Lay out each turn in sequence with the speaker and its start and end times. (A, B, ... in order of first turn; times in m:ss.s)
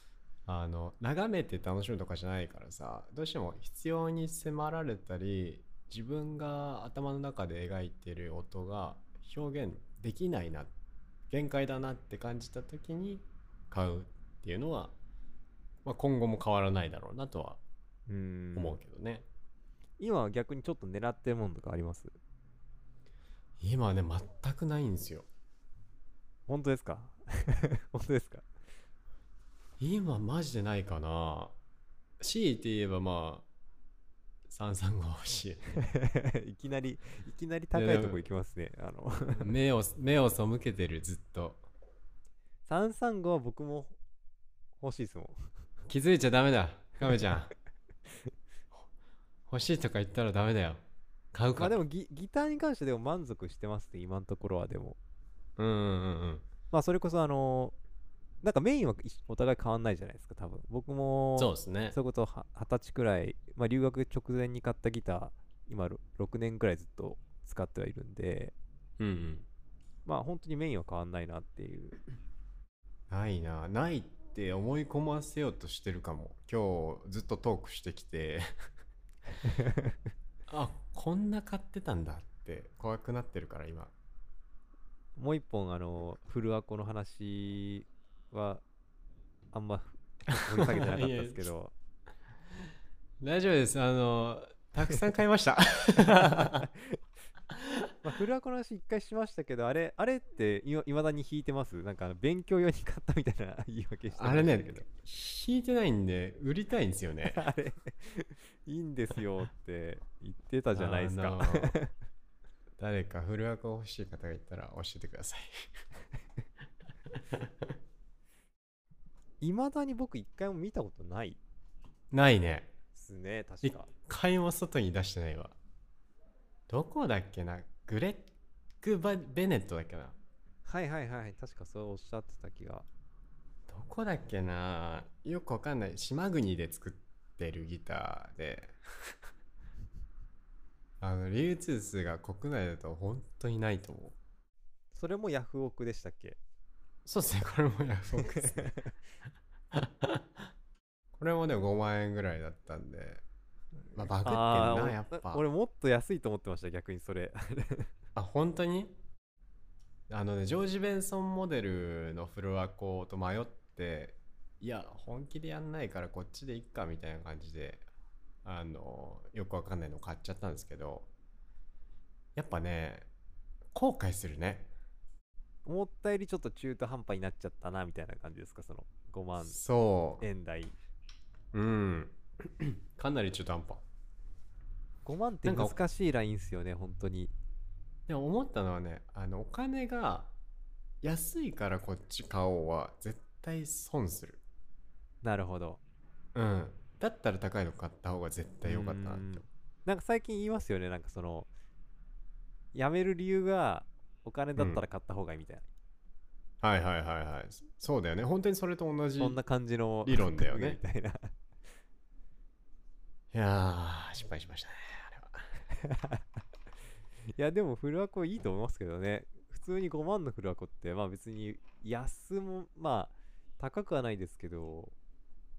0:00.5-0:10.7 A
0:11.3-0:15.0 A
0:15.8-0:17.6 A
0:18.1-0:18.8 B
0:18.6-0:19.3 A
0:20.0-0:22.1 B
0:23.6-0:25.3 A
0:26.5-0:28.4 B
0:29.8-0:31.6 A
0:32.2-0:33.5 A
0:34.5-0:35.8 A
0:35.8-0:39.5 B
0:37.7-0:38.2 A
0:39.4-0:41.6 A
0:42.7-0:44.0 B
0:44.8-0:45.4 B
0:45.9-0:47.5 A
0:49.5-0:51.8 A
0:51.6-0:55.0 B
0:55.6-0:56.5 A
0:56.7-0:57.8 B
0:58.4-1:08.5 B
1:01.4-1:02.0 A
1:09.0-1:09.5 A
1:10.1-1:12.0 B
1:13.1-1:18.5 A
1:19.4-1:19.9 B
1:20.5-1:23.9 A
1:25.2-1:28.6 B
1:29.5-1:31.7 B
1:30.5-1:31.5 A
1:33.2-1:36.7 A
1:36.0-1:37.0 B
1:37.5-1:37.9 A
1:38.0-1:44.9 B
1:44.1-1:47.4 A
1:47.3-1:51.9 B
1:50.8-1:51.8 A
1:52.8-1:55.5 A
1:59.4-2:01.4 B
2:02.1-2:02.7 A
2:03.0-2:03.9 B
2:03.6-2:05.6 A
2:06.7-2:10.2 A
2:10.7-2:12.9 B
2:13.7-2:19.2 A
2:21.0-2:24.2 A
2:24.9-2:26.4 B
2:27.0-2:28.8 A
2:28.4-2:28.9 B
2:29.7-2:30.2 A
2:31.2-2:33.2 A
2:33.9-2:35.4 A
2:34.2-2:37.9 B
2:38.2-2:39.0 A
2:40.1-2:47.8 A
2:48.4-2:51.1 A
2:52.4-2:53.1 A
2:53.7-2:54.7 A
2:55.7-2:59.6 B
2:59.4-3:00.2 A
3:00.2-3:00.8 B
3:01.5-3:03.8 A
3:05.0-3:07.3 B
3:05.4-3:05.8 A
3:08.1-3:10.3 A
3:11.0-3:14.4 A
3:15.2-3:15.8 B
3:16.4-3:19.4 A
3:18.6-3:21.5 B
3:22.7-3:25.7 B
3:24.6-3:24.8 A
3:26.6-3:29.4 A
3:29.2-3:31.3 B
3:30.1-3:30.8 A
3:33.3-3:35.5 A
3:35.8-3:36.2 B
3:37.4-3:45.0 B